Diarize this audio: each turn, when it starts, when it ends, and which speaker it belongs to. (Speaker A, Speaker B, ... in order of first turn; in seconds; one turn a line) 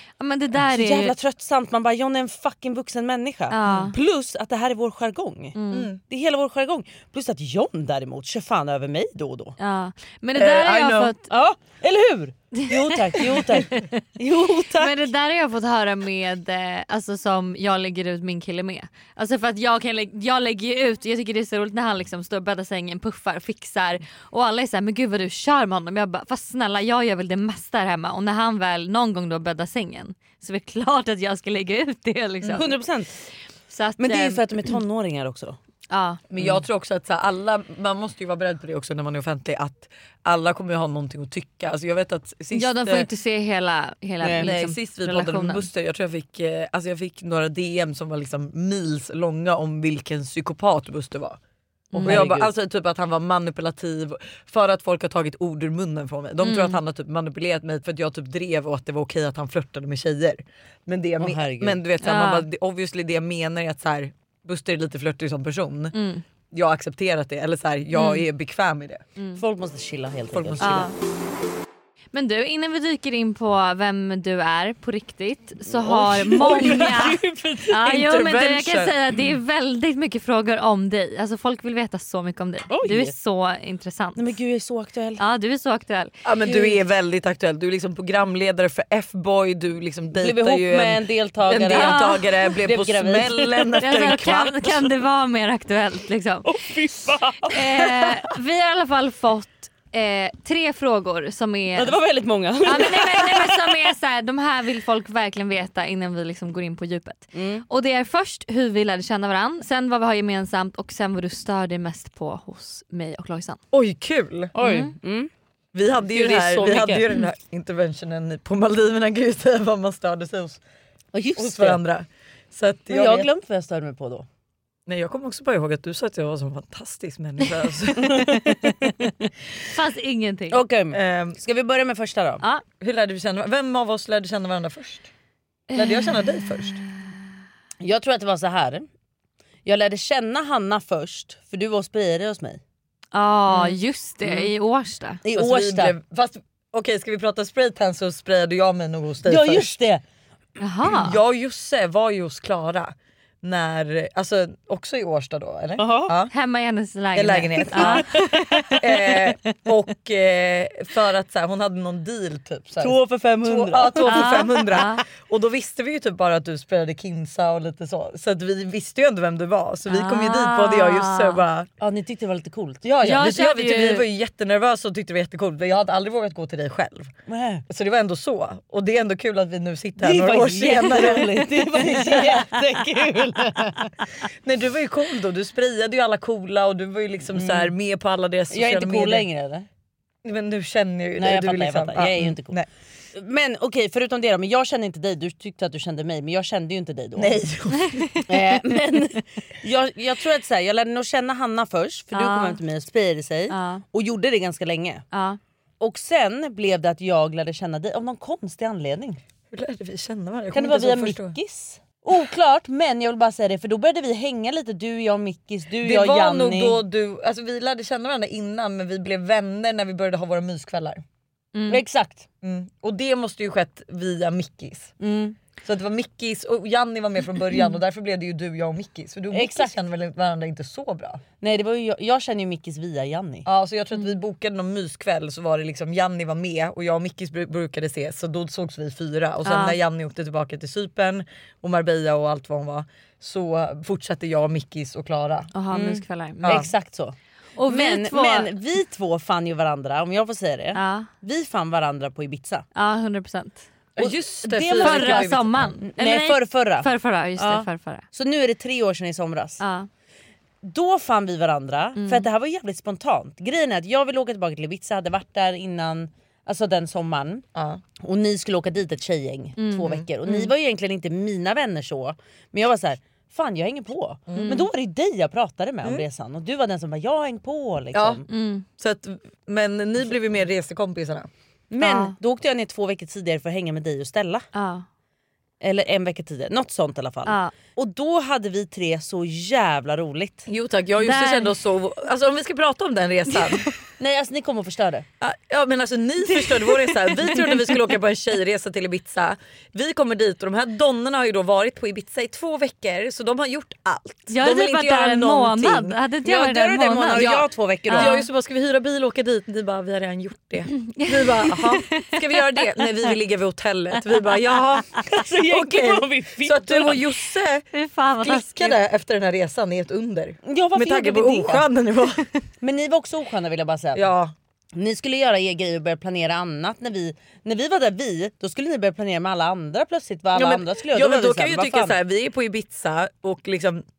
Speaker A: 0.2-1.1
Speaker B: 0.7-9.6
Speaker A: 3.5-4.0
Speaker C: 3.6-3.9
Speaker A: 5.5-5.9
Speaker C: 5.7-6.0
Speaker A: 9.6-11.2
Speaker C: 10.3-11.1
Speaker B: 11.3-15.1
Speaker A: 12.5-13.1
Speaker C: 13.2-13.5
Speaker A: 14.7-32.8
Speaker B: 32.5-33.1
Speaker A: 33.7-34.4
Speaker B: 34.0-35.6
Speaker A: 35.9-36.2
Speaker C: 36.3-43.1
Speaker A: 42.5-45.7
Speaker B: 44.2-44.5
Speaker C: 44.4-51.4
Speaker A: 51.9-52.2
Speaker B: 51.9-52.5
Speaker C: 52.0-65.9
Speaker A: 56.4-56.8
Speaker B: 61.2-61.8
Speaker A: 62.0-62.5
Speaker A: 65.9-66.2
Speaker C: 66.5-69.0
Speaker A: 67.9-68.2
Speaker A: 69.2-69.4
Speaker B: 69.4-70.9
Speaker C: 70.3-70.9
Speaker A: 70.6-70.9
Speaker A: 72.1-84.3
Speaker C: 75.8-77.1
Speaker B: 76.1-77.8
Speaker C: 77.8-79.0
Speaker B: 82.7-83.1
Speaker B: 84.2-85.2
Speaker A: 85.2-86.1
Speaker C: 86.2-94.9
Speaker B: 86.4-86.8
Speaker B: 90.1-93.9
Speaker A: 91.6-92.2
Speaker A: 93.8-96.5
Speaker B: 96.5-98.2
Speaker A: 97.5-102.0
Speaker B: 101.7-103.8
Speaker A: 102.6-113.6
Speaker B: 107.3-107.6
Speaker C: 113.7-114.5
Speaker B: 114.5-115.3
Speaker A: 114.6-114.9
Speaker C: 115.7-120.6
Speaker B: 116.0-117.1
Speaker B: 121.1-121.8
Speaker C: 121.4-123.3
Speaker B: 122.9-124.2
Speaker C: 124.9-128.4
Speaker B: 128.0-129.3
Speaker A: 129.7-130.6
Speaker B: 130.5-132.4
Speaker C: 130.9-131.4
Speaker C: 132.8-135.1
Speaker A: 135.7-136.7
Speaker C: 135.8-136.8
Speaker B: 137.8-138.9
Speaker B: 139.6-142.6
Speaker A: 143.1-145.2
Speaker B: 145.2-145.9
Speaker C: 145.3-149.7
Speaker B: 149.2-150.0
Speaker A: 150.6-151.2
Speaker C: 150.9-156.3
Speaker B: 155.8-156.1
Speaker A: 156.3-158.4
Speaker C: 157.1-171.7
Speaker B: 157.7-158.0
Speaker B: 162.8-164.5
Speaker A: 164.0-165.0
Speaker A: 169.9-171.4
Speaker B: 171.8-173.3
Speaker C: 173.0-177.1
Speaker A: 173.0-174.1
Speaker B: 177.3-177.6
Speaker C: 177.7-182.5
Speaker B: 180.0-183.9
Speaker C: 184.4-189.2
Speaker B: 187.3-187.7
Speaker B: 188.5-189.7
Speaker C: 190.2-192.7
Speaker B: 191.2-192.6
Speaker B: 193.1-197.4
Speaker C: 197.2-198.2
Speaker A: 197.8-198.2
Speaker B: 198.3-205.0
Speaker A: 202.1-202.6
Speaker A: 203.5-203.8
Speaker A: 205.1-205.4
Speaker B: 205.8-209.2
Speaker C: 209.5-211.3
Speaker B: 210.5-216.8
Speaker C: 215.8-221.0
Speaker A: 221.5-221.8
Speaker B: 221.7-222.2
Speaker C: 222.4-224.9
Speaker B: 225.0-225.4
Speaker C: 225.6-231.2
Speaker B: 229.3-229.7
Speaker B: 231.4-233.5
Speaker C: 233.5-245.5
Speaker A: 239.4-239.8
Speaker A: 245.5-246.6
Speaker B: 245.7-247.2
Speaker C: 246.4-246.7
Speaker A: 247.6-248.5
Speaker B: 247.7-252.7
Speaker A: 250.7-251.1
Speaker A: 252.7-253.7
Speaker C: 254.0-255.8
Speaker B: 254.0-259.6
Speaker A: 254.6-258.0
Speaker A: 259.6-259.9
Speaker B: 260.6-267.4
Speaker A: 262.0-262.2
Speaker C: 267.5-267.8
Speaker B: 268.0-278.2
Speaker A: 269.6-270.3
Speaker C: 274.3-274.7
Speaker C: 277.9-278.2
Speaker A: 278.3-278.6
Speaker C: 278.8-281.3
Speaker B: 281.7-284.5
Speaker A: 281.8-282.1
Speaker A: 284.5-284.9
Speaker B: 285.6-290.5
Speaker A: 287.2-287.5
Speaker C: 290.5-293.7
Speaker A: 291.0-291.5
Speaker B: 294.0-295.1
Speaker C: 295.2-306.0
Speaker A: 304.3-308.3
Speaker B: 306.2-308.1
Speaker C: 307.1-317.6
Speaker A: 310.7-313.1
Speaker B: 315.1-317.1
Speaker A: 317.7-318.8
Speaker C: 318.2-322.3
Speaker B: 320.4-321.6
Speaker B: 322.6-324.0
Speaker C: 323.9-324.3
Speaker B: 324.7-332.0
Speaker C: 330.4-333.8